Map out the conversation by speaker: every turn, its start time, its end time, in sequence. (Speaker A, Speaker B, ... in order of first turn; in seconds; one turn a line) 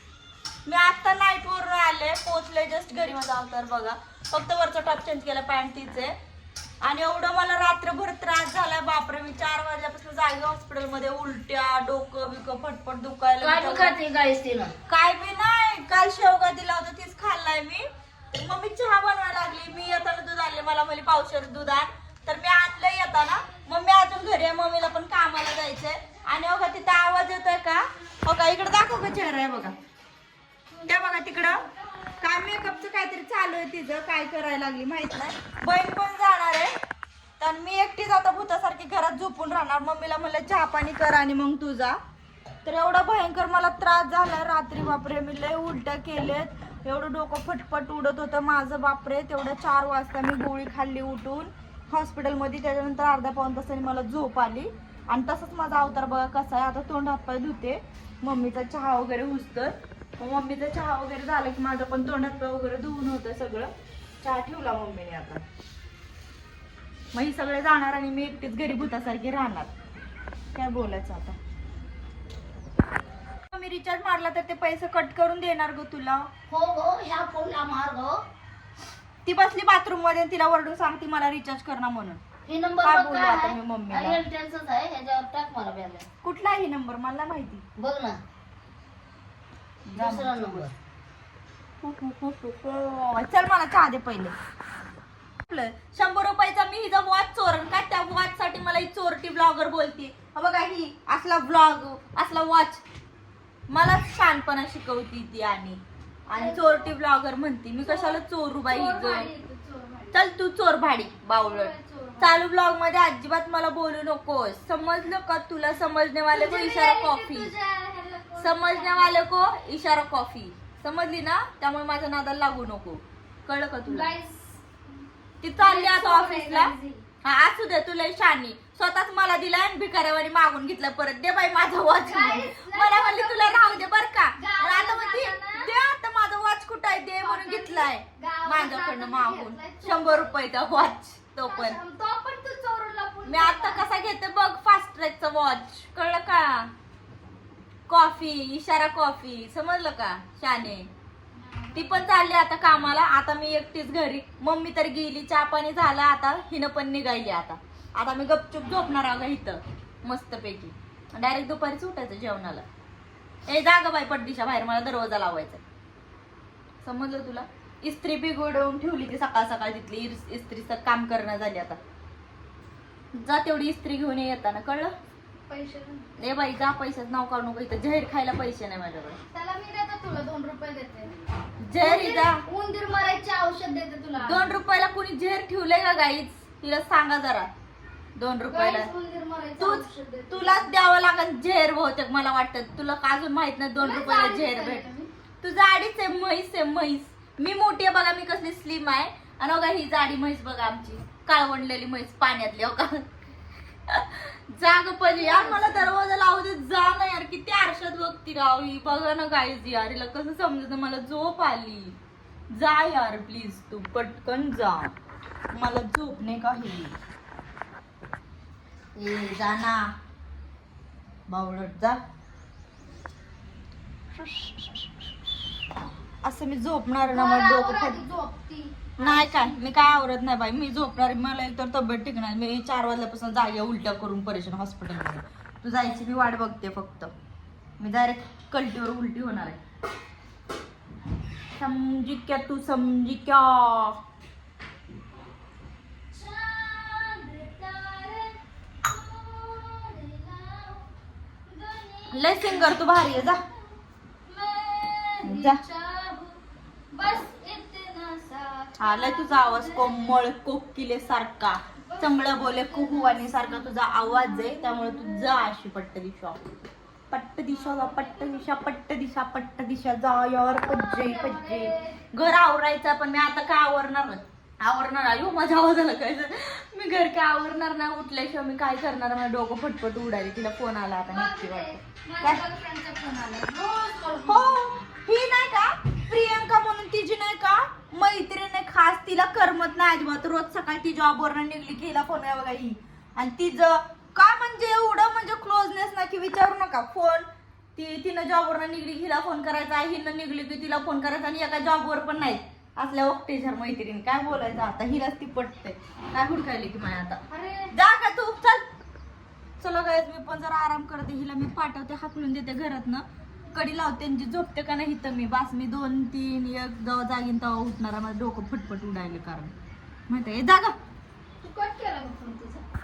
Speaker A: 0.7-6.1
Speaker A: 6.8-14.0
Speaker B: 13.4-14.7
Speaker A: 14.9-29.8
Speaker C: 30.7-31.7
Speaker A: 30.9-31.6
Speaker A: 32.2-36.7
Speaker A: 37.4-42.0
Speaker A: 42.6-63.7
Speaker A: 64.2-65.4
Speaker A: 67.1-69.7
Speaker A: 70.5-71.4
Speaker A: 73.5-76.3
Speaker B: 76.5-78.2
Speaker A: 79.2-82.2
Speaker B: 82.5-86.1
Speaker A: 82.8-84.2
Speaker A: 86.2-87.7
Speaker B: 87.8-88.2
Speaker A: 89.9-90.7
Speaker B: 90.0-90.7
Speaker A: 91.8-94.3
Speaker A: 95.5-102.8
Speaker A: 103.7-109.3
Speaker C: 106.4-106.9
Speaker C: 107.8-110.2
Speaker A: 110.1-117.5
Speaker C: 111.4-112.4
Speaker C: 116.3-119.2
Speaker A: 118.4-124.1
Speaker C: 123.9-124.6
Speaker A: 125.4-141.8
Speaker C: 125.6-127.0
Speaker C: 132.0-135.8
Speaker C: 137.2-140.3
Speaker C: 141.4-144.1
Speaker A: 143.2-146.7
Speaker A: 147.9-150.9
Speaker C: 151.4-152.1
Speaker A: 151.7-162.7
Speaker A: 163.5-165.6
Speaker A: 166.8-171.8
Speaker A: 173.2-174.9
Speaker C: 175.5-176.1
Speaker A: 176.2-179.2
Speaker C: 179.3-181.1
Speaker A: 181.6-182.4
Speaker C: 181.8-184.6
Speaker A: 184.2-187.5
Speaker A: 188.2-188.9
Speaker C: 188.5-190.7
Speaker A: 189.6-194.9
Speaker C: 193.8-195.1
Speaker A: 195.4-203.1
Speaker A: 203.9-212.0
Speaker C: 205.1-205.9
Speaker A: 212.5-214.9
Speaker A: 215.5-217.0
Speaker A: 219.0-219.9
Speaker A: 221.3-222.0
Speaker A: 224.2-224.9
Speaker A: 226.2-228.0
Speaker C: 227.1-229.6
Speaker A: 229.0-237.1
Speaker A: 237.8-239.6
Speaker A: 241.6-244.0
Speaker C: 246.1-250.9
Speaker C: 251.5-256.4
Speaker A: 252.1-253.4
Speaker A: 255.2-255.6
Speaker C: 256.9-260.1
Speaker A: 258.8-266.4
Speaker C: 261.9-265.4
Speaker A: 267.1-282.4
Speaker C: 267.6-268.4
Speaker C: 270.6-272.0
Speaker C: 281.1-284.7
Speaker A: 284.3-308.7
Speaker C: 307.3-307.7
Speaker A: 309.6-319.5
Speaker A: 320.1-320.8
Speaker C: 321.4-322.6